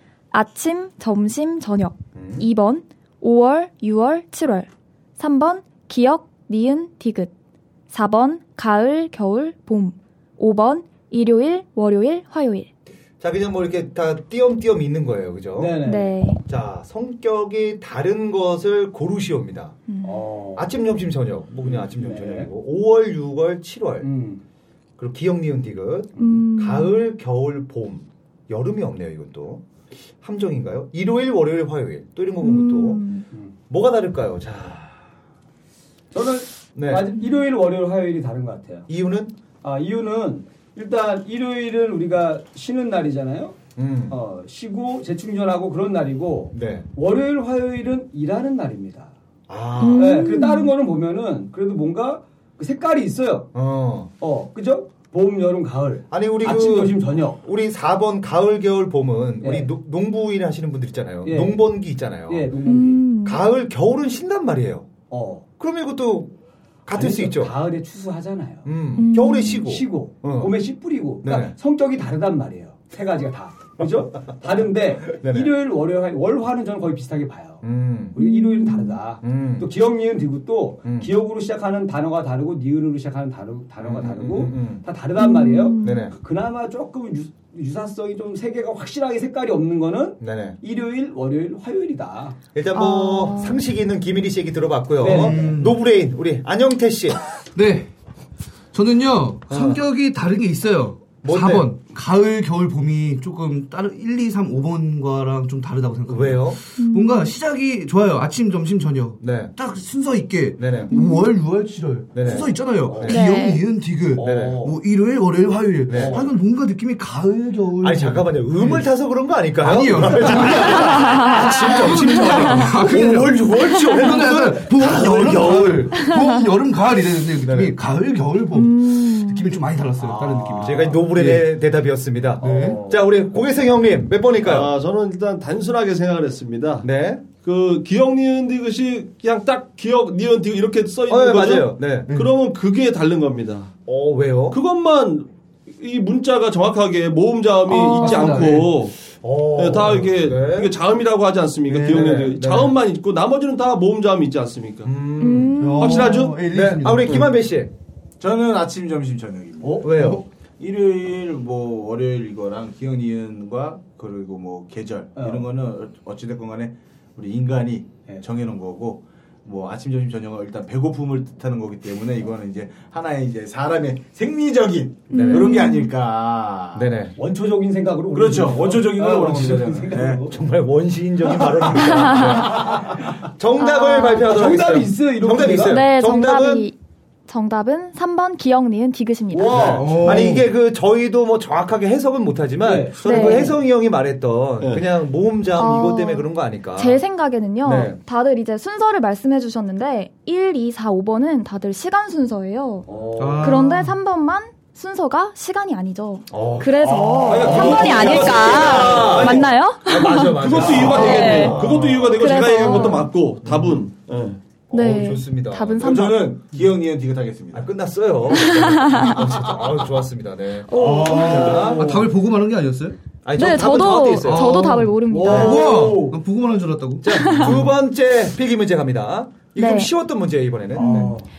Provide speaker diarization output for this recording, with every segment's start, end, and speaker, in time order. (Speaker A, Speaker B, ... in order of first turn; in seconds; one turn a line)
Speaker A: 0.3-4.7
Speaker B: 2.1-2.5
Speaker A: 5.2-7.3
Speaker A: 7.9-12.7
Speaker B: 13.2-15.8
Speaker C: 15.6-16.1
Speaker A: 15.8-16.4
Speaker B: 16.5-19.8
Speaker A: 19.9-20.1
Speaker C: 20.0-20.7
Speaker B: 20.6-24.1
Speaker C: 21.6-22.5
Speaker C: 24.0-24.4
Speaker B: 25.0-29.6
Speaker A: 26.2-27.0
Speaker B: 30.2-33.0
Speaker A: 32.4-33.3
Speaker B: 33.7-34.9
Speaker C: 36.1-38.9
Speaker B: 36.8-37.1
Speaker B: 38.9-39.4
Speaker C: 39.6-43.6
Speaker B: 43.8-44.2
Speaker C: 44.1-49.1
Speaker B: 46.5-46.9
Speaker B: 49.5-50.3
Speaker A: 49.8-50.7
Speaker C: 50.0-53.5
Speaker B: 53.5-54.1
Speaker C: 54.2-57.4
Speaker B: 56.1-62.5
Speaker C: 59.4-59.7
Speaker C: 61.2-61.6
Speaker C: 62.3-63.0
Speaker A: 62.7-63.4
Speaker B: 63.2-64.9
Speaker C: 65.1-65.5
Speaker B: 65.6-66.3
Speaker B: 66.9-67.5
Speaker C: 66.9-68.7
Speaker B: 68.6-70.6
Speaker A: 69.0-69.7
Speaker C: 69.6-77.6
Speaker B: 71.2-71.5
Speaker B: 75.1-75.5
Speaker B: 77.6-78.2
Speaker C: 78.2-92.4
Speaker A: 78.2-79.0
Speaker B: 79.2-79.7
Speaker B: 80.8-81.1
Speaker B: 83.8-84.8
Speaker A: 85.2-86.1
Speaker B: 85.8-86.2
Speaker B: 90.2-90.6
Speaker B: 92.5-97.2
Speaker A: 92.7-93.6
Speaker C: 95.0-95.4
Speaker D: 95.1-95.8
Speaker D: 97.5-97.9
Speaker D: 98.7-118.9
Speaker B: 99.5-99.8
Speaker B: 101.2-101.7
Speaker B: 106.1-106.6
Speaker A: 106.8-107.3
Speaker B: 109.2-109.5
Speaker B: 110.6-110.9
Speaker A: 110.9-111.3
Speaker B: 112.1-113.2
Speaker C: 112.2-113.2
Speaker A: 113.1-113.6
Speaker C: 114.2-114.8
Speaker B: 114.2-114.6
Speaker B: 115.9-116.2
Speaker C: 115.9-116.3
Speaker B: 117.8-126.0
Speaker D: 119.6-131.5
Speaker A: 120.8-121.5
Speaker A: 122.2-122.5
Speaker A: 126.0-126.5
Speaker B: 127.4-127.8
Speaker A: 128.5-129.5
Speaker C: 130.0-131.0
Speaker B: 130.6-134.7
Speaker D: 132.4-132.8
Speaker C: 132.4-133.1
Speaker E: 134.4-136.9
Speaker B: 136.8-137.2
Speaker E: 137.4-143.7
Speaker B: 141.1-142.1
Speaker B: 143.9-144.6
Speaker E: 144.5-148.9
Speaker A: 147.7-148.3
Speaker D: 148.0-148.7
Speaker B: 149.2-150.7
Speaker E: 149.6-154.9
Speaker D: 151.7-152.3
Speaker B: 151.9-152.8
Speaker B: 154.8-155.6
Speaker A: 155.2-156.2
Speaker D: 155.6-157.3
Speaker E: 155.8-156.4
Speaker B: 156.5-157.7
Speaker F: 158.2-176.9
Speaker C: 159.6-159.9
Speaker B: 159.8-160.2
Speaker C: 165.2-165.5
Speaker A: 175.1-175.9
Speaker B: 175.1-175.5
Speaker B: 176.7-177.2
Speaker C: 177.2-180.3
Speaker F: 178.1-180.3
Speaker B: 180.3-186.7
Speaker C: 181.3-183.2
Speaker A: 182.0-182.5
Speaker A: 183.6-184.3
Speaker C: 184.2-185.8
Speaker A: 185.7-186.8
Speaker A: 187.3-189.8
Speaker C: 189.3-190.3
Speaker B: 189.5-197.0
Speaker D: 189.7-190.5
Speaker C: 192.6-193.6
Speaker A: 193.0-193.4
Speaker A: 195.6-202.9
Speaker B: 197.6-198.0
Speaker C: 202.9-203.6
Speaker D: 203.2-203.9
Speaker A: 203.4-211.6
Speaker B: 206.3-213.9
Speaker C: 206.9-209.5
Speaker E: 207.4-209.3
Speaker E: 210.3-214.4
Speaker C: 210.6-210.9
Speaker A: 212.2-213.1
Speaker B: 214.7-216.0
Speaker A: 214.7-216.3
Speaker F: 215.8-217.7
Speaker B: 217.5-221.9
Speaker A: 218.3-219.2
Speaker A: 220.7-221.6
Speaker C: 220.7-222.1
Speaker D: 221.7-223.0
Speaker B: 223.2-224.7
Speaker A: 223.4-225.8
Speaker D: 224.2-227.7
Speaker C: 225.1-226.2
Speaker B: 227.0-231.2
Speaker A: 227.1-227.6
Speaker A: 229.6-229.9
Speaker C: 230.8-231.3
Speaker A: 230.8-231.1